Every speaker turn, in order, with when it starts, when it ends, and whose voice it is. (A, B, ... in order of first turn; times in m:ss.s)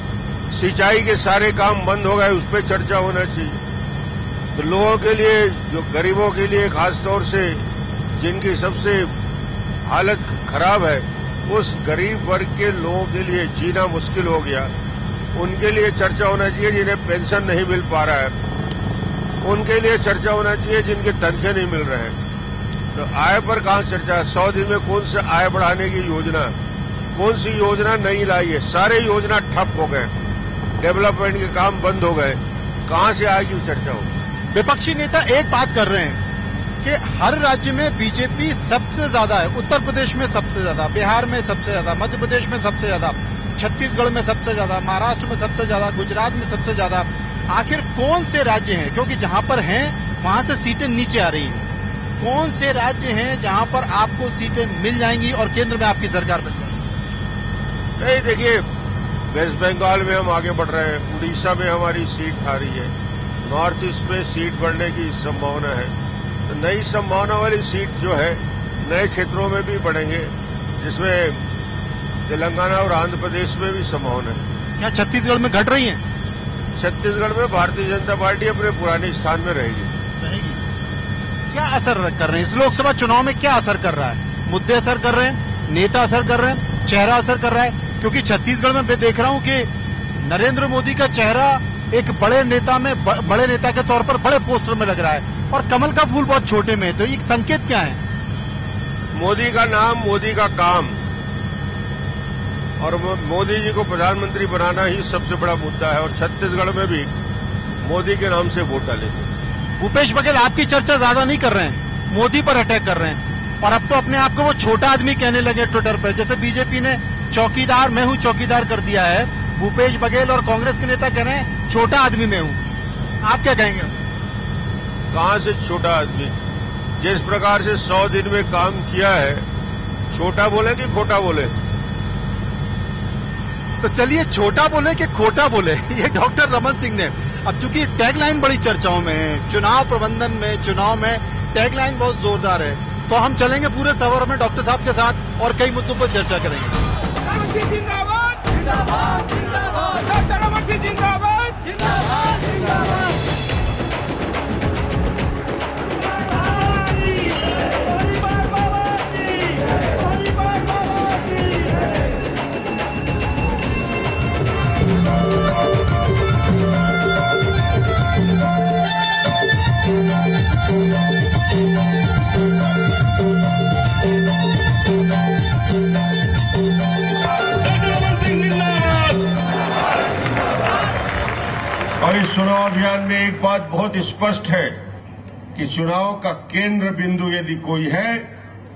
0:00.5-0:03.6 A
0:04.5-0:09.1 A
0:09.8-0:14.7 A
0:15.3-0:18.4 A
0:19.4-0:22.2 A
0:22.9-0:26.5 A
0:27.1-0:30.1 A
0:30.8-0:34.1 A
0:34.5-0:36.2 B
0:36.8-0:51.6 B
0:52.2-0:56.8 B
0:58.0-0:58.6 A
0:59.3-1:02.9 A
1:03.4-1:05.9 A
1:06.5-1:11.4 A
1:12.2-1:14.4 A
1:14.8-1:16.0 B
1:16.8-1:19.9 A
1:20.2-1:20.6 B
1:21.5-1:38.0 B
1:39.1-1:41.0 A
1:42.8-1:47.1 A
1:47.8-1:49.3 A
1:49.8-2:02.6 B
2:03.2-2:03.9 B
2:05.1-2:06.4 A
2:07.0-2:09.4 A
2:10.1-2:11.5 A
2:13.8-2:26.8 B
2:27.4-2:28.4 B
2:30.3-2:31.6 B
2:58.4-2:59.0 A
3:02.0-3:04.8 A
3:05.5-3:08.3 A